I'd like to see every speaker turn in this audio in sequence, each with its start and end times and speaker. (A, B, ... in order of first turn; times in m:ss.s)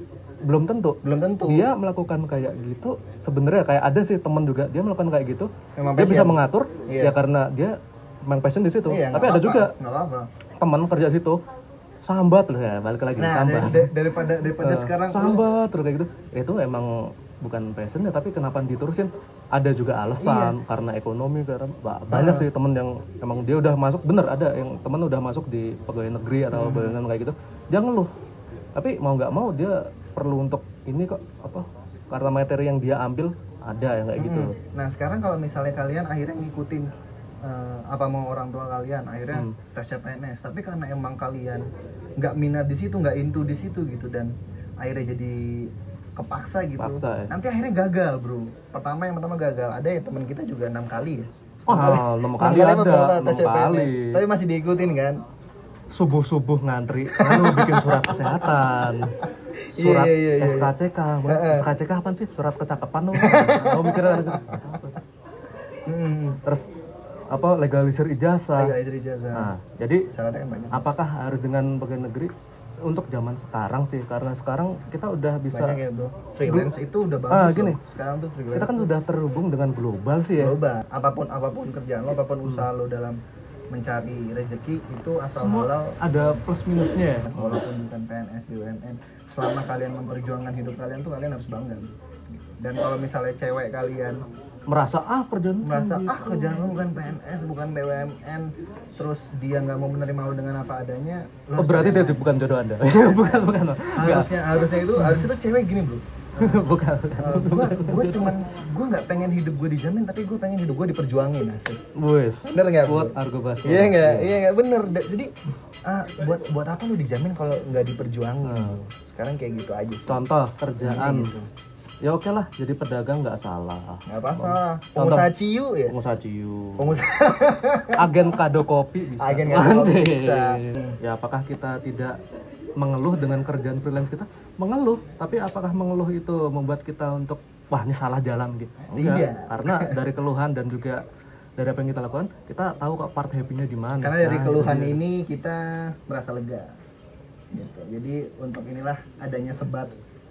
0:00.4-0:09.7 A
0:01.0-0:01.7 B
0:05.8-0:07.2 B
0:08.8-0:10.3 B
0:10.6-0:11.4 A
0:12.0-0:13.9 A
0:13.2-0:15.5 B
0:14.6-0:28.1 A
0:20.2-0:20.6 B
0:22.1-0:22.5 B
0:26.5-0:27.0 B
0:28.7-0:34.5 A
0:34.2-0:36.9 B
0:37.4-0:41.6 B
0:42.2-0:55.2 B
0:46.8-0:47.3 A
0:51.7-0:54.2 A
0:55.9-0:59.1 A
0:57.1-1:00.7 B
0:59.7-1:05.0 A
1:01.2-1:01.7 B
1:03.1-1:04.6 B
1:05.9-1:06.4 B
1:07.3-1:08.7 A
1:08.5-1:09.5 B
1:09.3-1:10.1 A
1:10.1-1:10.8 B
1:10.7-1:12.3 A
1:12.8-1:15.8 A
1:15.5-1:18.9 B
1:16.4-1:16.7 A
1:17.3-1:17.8 A
1:18.5-1:20.5 A
1:20.4-1:23.2 B
1:23.7-1:26.4 B
1:25.3-1:27.6 A
1:27.2-1:34.2 B
1:34.7-1:36.6 A
1:35.6-1:42.3 B
1:41.6-1:45.2 A
1:43.1-1:46.6 B
1:46.4-1:48.3 A
1:47.2-1:51.8 B
1:51.9-1:54.4 A
1:52.4-1:55.3 B
1:55.8-2:00.1 B
1:58.4-1:58.8 A
2:00.1-2:01.3 A
2:00.8-2:01.5 B
2:02.0-2:05.4 A
2:04.1-2:05.9 B
2:05.9-2:07.0 A
2:06.8-2:08.4 B
2:07.9-2:12.2 A
2:09.2-2:11.0 B
2:12.8-2:21.0 A
2:18.9-2:20.0 B
2:21.6-2:25.0 A
2:24.0-2:26.7 B
2:27.5-2:29.9 B